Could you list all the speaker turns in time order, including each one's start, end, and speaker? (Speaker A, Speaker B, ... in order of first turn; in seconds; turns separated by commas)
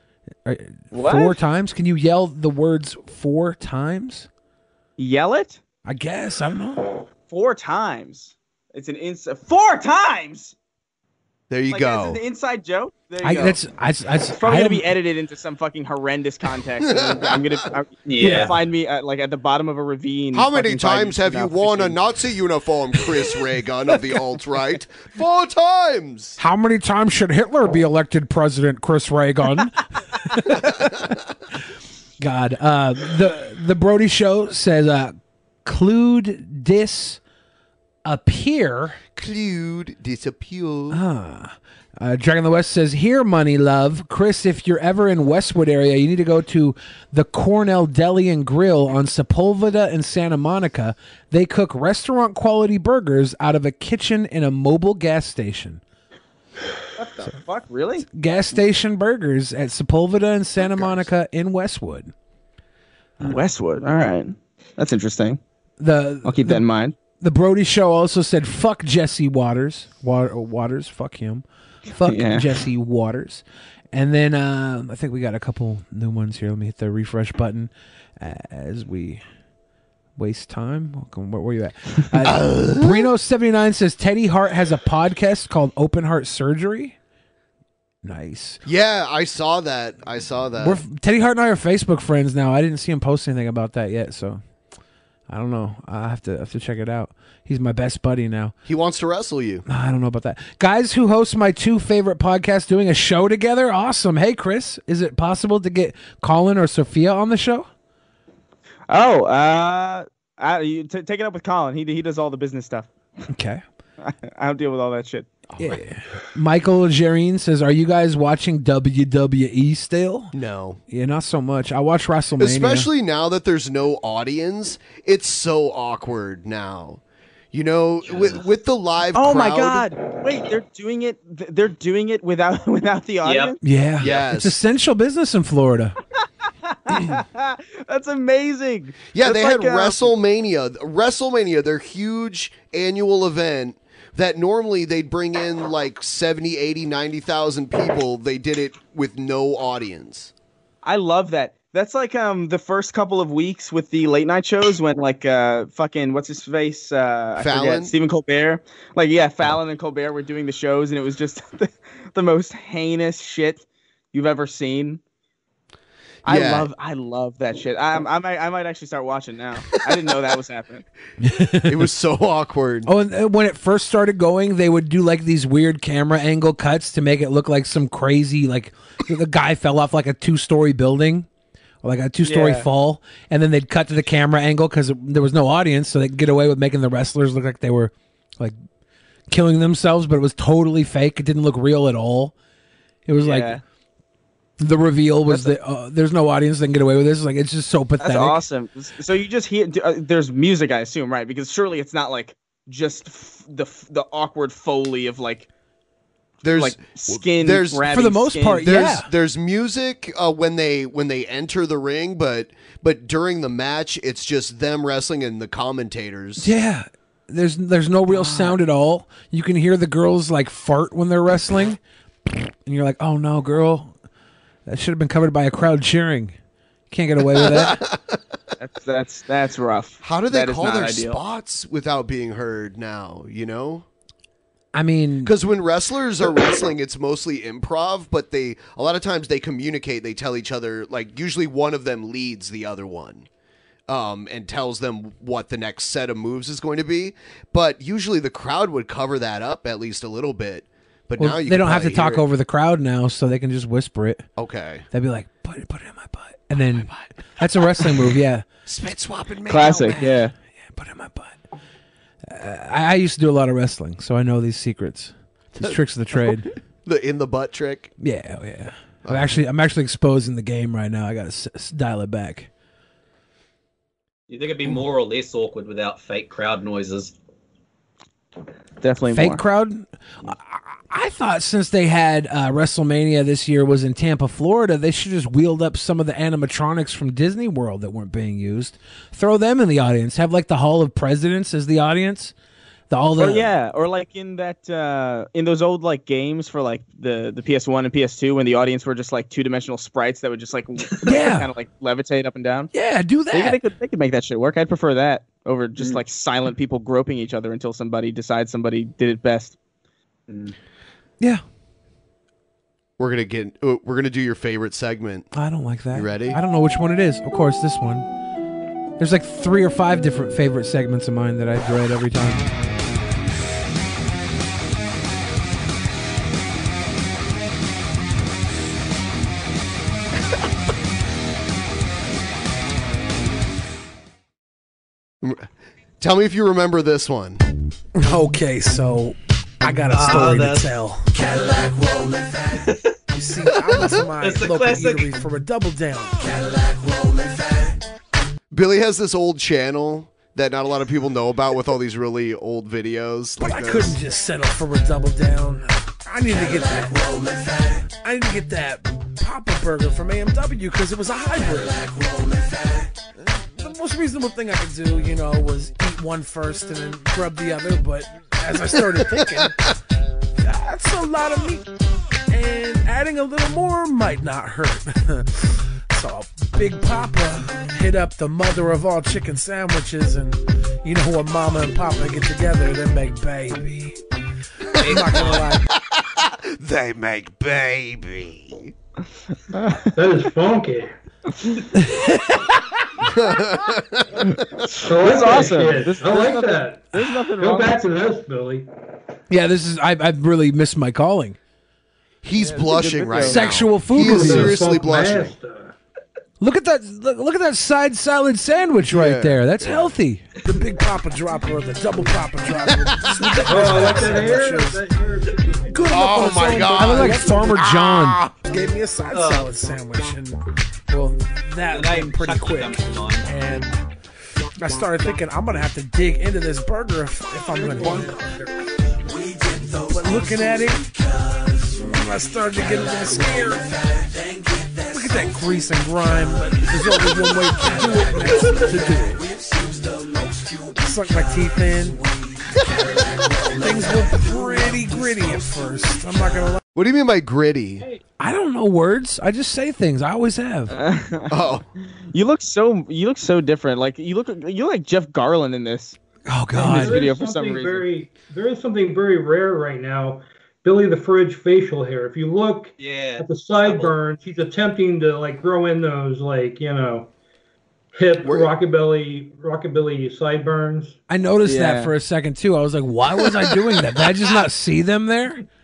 Speaker A: 0.4-4.3, Speaker B: 0.9-1.4, Speaker B: 5.0-5.6, Speaker A: 5.8-6.9, Speaker B: 7.3-10.5, Speaker C: 11.5-12.2, Speaker B: 11.7-13.6, Speaker A: 13.2-14.8, Speaker B: 14.4-22.0, Speaker C: 16.8-17.5, Speaker D: 18.1-18.5, Speaker C: 20.3-26.4, Speaker A: 26.4-30.8, Speaker C: 30.8-31.2, Speaker A: 32.2-37.2, Speaker A: 38.0-39.0, Speaker C: 39.1-41.0, Speaker A: 40.9-55.8, Speaker B: 57.0-58.0, Speaker A: 58.1-62.1, Speaker C: 60.6-61.1, Speaker B: 63.2-65.4, Speaker A: 65.8-66.6, Speaker B: 66.2-66.9, Speaker A: 67.2-79.2, Speaker B: 72.1-72.5, Speaker A: 80.2-87.0, Speaker C: 82.2-83.1, Speaker A: 88.0-88.6, Speaker C: 88.6-90.8, Speaker A: 90.6-94.4, Speaker A: 95.3-98.5, Speaker C: 98.7-99.6, Speaker A: 99.7-107.7, Speaker B: 108.9-112.9, Speaker A: 113.3-113.6, Speaker B: 114.0-115.3, Speaker A: 115.6-120.3, Speaker C: 120.3-120.8, Speaker A: 120.9-122.9, Speaker C: 122.4-127.0, Speaker C: 127.5-129.9, Speaker B: 129.1-133.6, Speaker D: 133.2-133.5, Speaker A: 133.6-135.9, Speaker C: 134.0-134.6, Speaker B: 136.9-140.1, Speaker C: 139.1-150.3, Speaker B: 150.8-165.0, Speaker C: 157.4-157.9, Speaker C: 166.2-166.7, Speaker B: 166.2-170.8, Speaker A: 171.2-171.8, Speaker C: 171.7-172.9, Speaker A: 172.8-181.3, Speaker A: 181.8-188.6, Speaker B: 182.2-182.7, Speaker A: 189.3-192.3, Speaker A: 193.1-193.6, Speaker B: 193.2-193.6, Speaker A: 194.6-198.4, Speaker B: 198.0-205.5, Speaker C: 206.4-207.8, Speaker B: 206.4-208.7, Speaker A: 207.9-209.1, Speaker C: 208.6-216.5, Speaker A: 216.4-223.9, Speaker A: 224.7-226.3, Speaker A: 226.9-227.8, Speaker C: 227.3-228.1, Speaker B: 228.6-231.2, Speaker C: 230.0-233.8, Speaker A: 234.7-235.3, Speaker C: 235.2-243.3, Speaker C: 243.9-252.2, Speaker A: 251.2-254.3, Speaker C: 254.3-254.8, Speaker A: 254.9-258.4, Speaker C: 256.6-257.1, Speaker C: 258.6-260.0, Speaker B: 259.5-260.3, Speaker A: 259.6-260.2, Speaker A: 260.7-261.4, Speaker A: 262.2-266.5, Speaker C: 265.6-267.9, Speaker A: 268.0-272.5, Speaker C: 269.0-269.4, Speaker D: 274.3-277.1, Speaker B: 278.8-279.4, Speaker A: 279.1-292.3, Speaker A: 292.9-293.5, Speaker B: 293.2-302.7, Speaker A: 301.0-301.5, Speaker A: 302.7-303.6, Speaker B: 303.3-309.5, Speaker D: 310.3-310.5, Speaker C: 313.0-315.3, Speaker A: 315.3-318.1, Speaker C: 315.9-316.4, Speaker A: 319.0-322.5, Speaker C: 335.2-335.5, Speaker C: 336.0-337.4, Speaker E: 338.0-341.2, Speaker D: 339.9-340.7, Speaker D: 342.5-342.9, Speaker E: 343.1-346.5, Speaker D: 343.7-345.1, Speaker C: 348.5-354.0, Speaker E: 353.4-369.6, Speaker C: 368.9-369.5, Speaker E: 370.4-371.7, Speaker E: 372.3-384.0, Speaker C: 384.8-385.1, Speaker E: 384.8-385.6, Speaker D: 384.8-385.5, Speaker C: 385.9-388.7, Speaker B: 389.5-389.9, Speaker F: 389.9-390.9, Speaker A: 391.8-392.4, Speaker C: 393.1-394.3, Speaker F: 394.8-398.7, Speaker B: 394.9-397.9, Speaker A: 399.3-401.4, Speaker C: 402.2-405.3, Speaker B: 402.4-403.4, Speaker A: 403.2-404.6, Speaker F: 403.9-405.7, Speaker A: 406.4-410.3, Speaker C: 408.8-409.9, Speaker E: 410.4-414.8, Speaker C: 412.7-413.7, Speaker F: 413.4-416.0, Speaker E: 415.7-423.8, Speaker C: 415.9-418.2, Speaker A: 416.7-418.2, Speaker D: 419.1-419.4, Speaker D: 421.7-423.3, Speaker E: 424.6-428.2, Speaker F: 427.6-428.5, Speaker A: 429.1-431.6, Speaker E: 429.9-430.9, Speaker E: 431.8-433.8, Speaker A: 434.1-435.3, Speaker E: 434.9-439.2, Speaker A: 439.3-440.0, Speaker E: 440.7-442.0, Speaker E: 443.5-446.6, Speaker C: 446.7-447.8, Speaker A: 448.2-450.7, Speaker B: 450.7-451.4, Speaker C: 451.3-451.6, Speaker B: 452.1-456.0, Speaker A: 456.3-457.0, Speaker F: 456.5-467.1, Speaker B: 456.6-457.8, Speaker D: 462.8-463.9, Speaker F: 467.9-471.0, Speaker C: 468.2-468.5, Speaker A: 471.1-475.4, Speaker B: 471.4-471.9, Speaker C: 473.1-474.3